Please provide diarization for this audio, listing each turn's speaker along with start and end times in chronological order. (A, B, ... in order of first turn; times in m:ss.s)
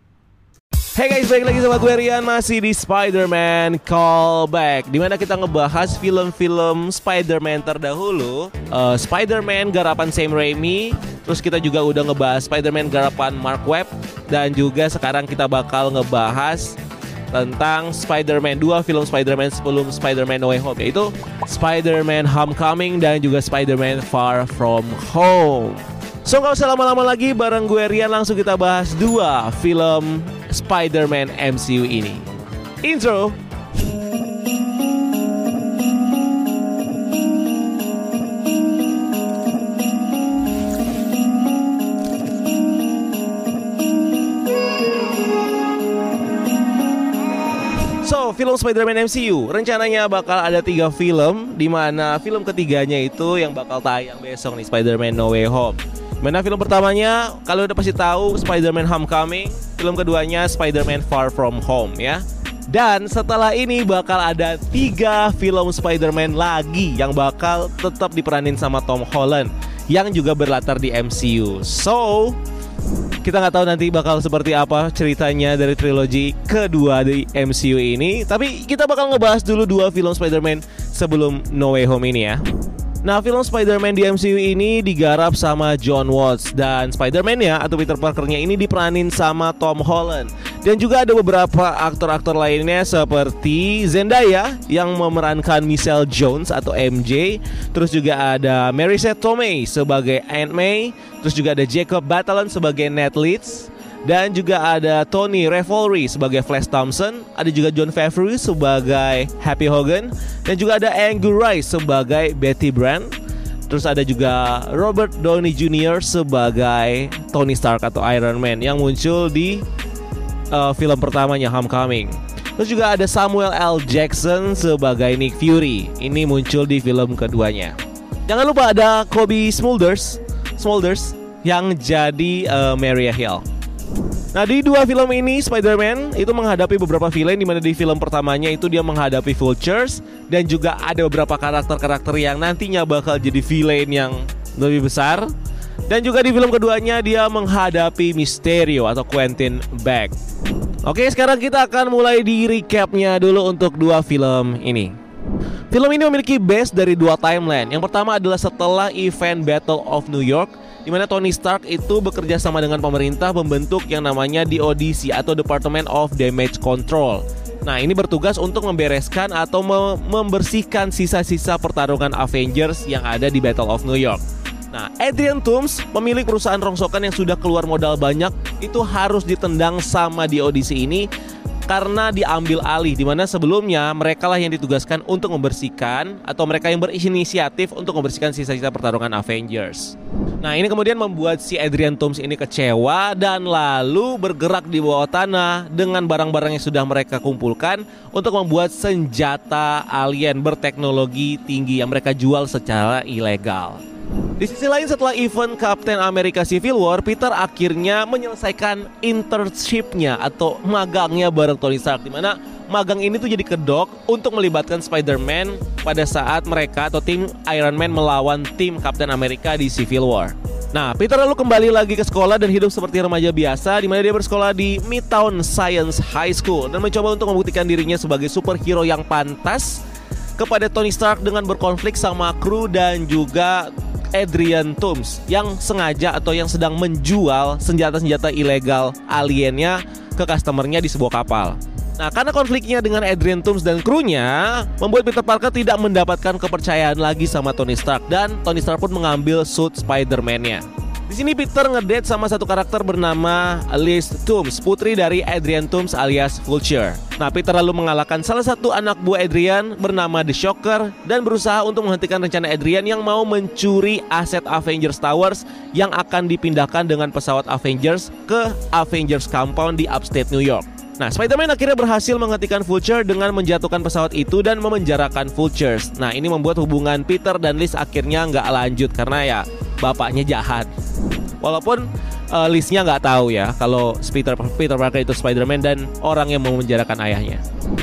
0:01.0-0:16.8 A
0:17.3-0:32.3 A
0:32.8-0:33.4 A
0:47.9-1:12.4 A
1:13.2-1:22.4 A
1:23.0-1:53.2 A
1:53.7-1:59.7 A
2:00.5-2:13.5 A
2:14.3-2:25.3 A
2:25.9-2:30.2 A
2:30.8-2:35.0 A
2:35.7-3:01.1 A
3:01.7-3:23.8 A
3:24.4-3:49.8 A
3:50.4-4:40.7 A
4:41.4-4:47.4 A